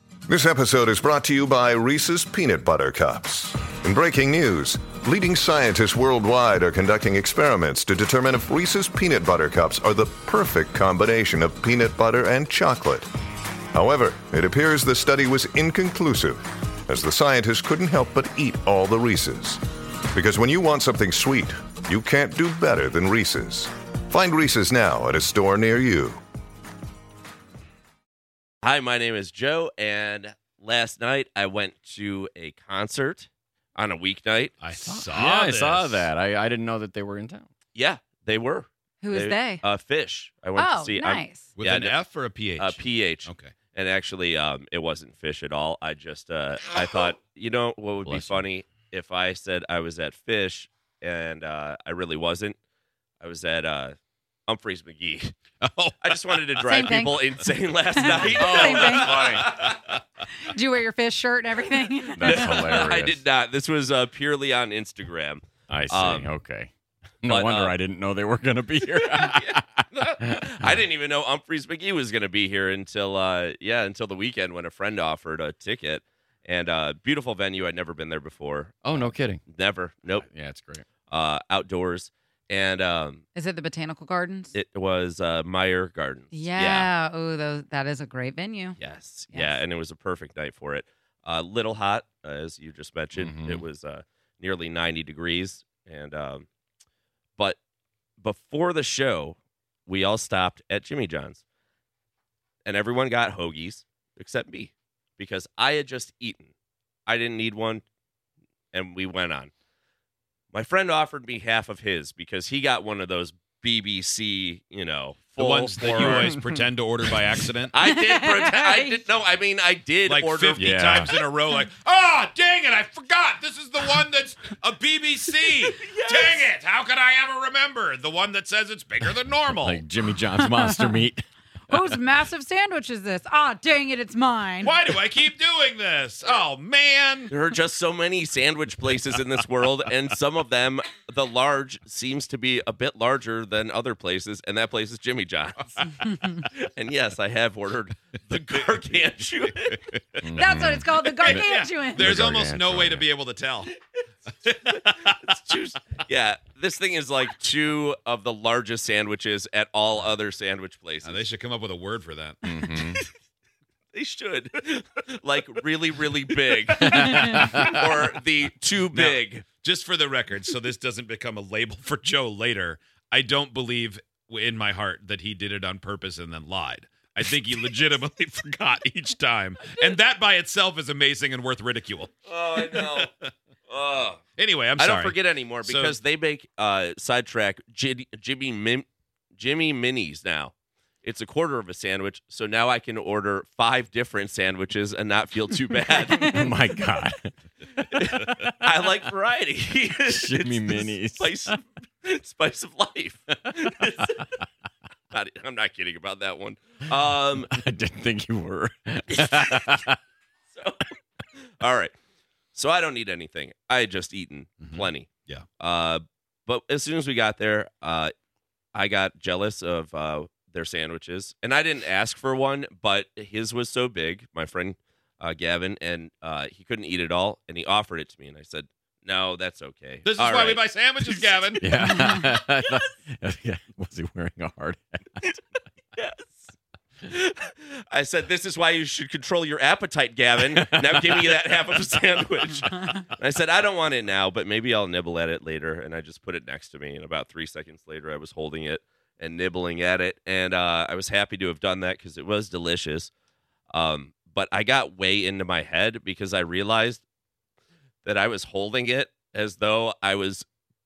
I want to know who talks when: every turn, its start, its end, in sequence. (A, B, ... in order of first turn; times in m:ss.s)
0:00.3-0:13.1 A
0:13.7-0:19.6 A
0:20.1-0:26.2 A
0:28.6-0:34.6 B
0:34.6-0:36.1 C
0:34.8-0:37.5 D
0:37.8-0:42.0 B
0:39.0-0:39.6 E
0:40.6-0:41.5 E
0:41.6-0:43.5 C
0:42.6-0:52.6 B
0:48.0-0:48.5 D
0:53.2-0:55.4 B
0:55.6-0:56.6 C
0:56.0-0:59.9 B
0:56.6-0:57.4 E
0:57.9-0:59.1 E
0:58.3-0:59.5 D
0:58.6-0:59.9 C
1:00.4-1:02.6 E
1:02.1-1:03.2 D
1:02.2-1:06.4 B
1:05.7-1:10.8 D
1:07.2-1:07.8 B
1:08.9-1:20.3 B
1:18.8-1:19.4 D
1:20.1-1:20.8 D
1:21.1-1:23.2 B
1:23.4-1:24.5 E
1:24.6-1:26.9 B
1:26.3-1:28.8 E
1:28.8-1:36.5 B
1:29.3-1:29.6 E
1:33.2-1:33.6 D
1:38.2-1:41.4 B
1:42.7-1:46.5 B
1:47.1-1:47.8 B
1:48.7-1:49.5 B
1:50.5-1:56.4 B
1:55.4-1:57.8 C
1:57.7-2:00.7 B
1:57.8-1:59.0 E
2:00.0-2:09.9 C
2:00.6-2:01.1 D
2:05.4-2:06.5 B
2:09.5-2:12.0 D
2:10.5-2:11.0 E
2:11.7-2:14.8 E
2:14.6-2:17.3 C
2:17.3-2:30.2 B
2:30.2-2:31.4 D
2:30.3-2:32.2 E
2:31.1-2:33.7 C
2:32.0-2:33.1 D
2:34.4-2:35.4 C
2:34.7-2:41.2 B
2:41.0-2:42.9 C
2:42.4-2:43.0 D
2:43.9-2:49.5 B
2:46.8-2:48.0 D
2:47.0-2:47.8 C
2:47.0-2:47.3 E
2:48.9-3:03.2 C
3:02.3-3:03.1 B
3:03.7-3:04.2 B
3:04.4-3:06.0 C
3:04.8-3:08.9 B
3:09.4-3:16.5 B
3:16.3-3:18.5 D
3:17.9-3:24.3 B
3:20.1-3:21.6 D
3:25.1-3:27.5 B
3:27.4-3:30.0 D
3:29.1-3:29.7 B
3:30.5-3:30.9 B
3:31.6-3:31.9 B
3:32.5-3:38.1 B
3:34.6-3:35.4 C
3:38.7-3:51.5 B
3:50.0-3:52.1 C
3:51.6-3:55.3 D
3:56.0-3:56.5 B
3:57.1-4:13.1 B
4:00.5-4:01.6 D
4:13.7-4:17.0 B
4:18.0-4:20.4 B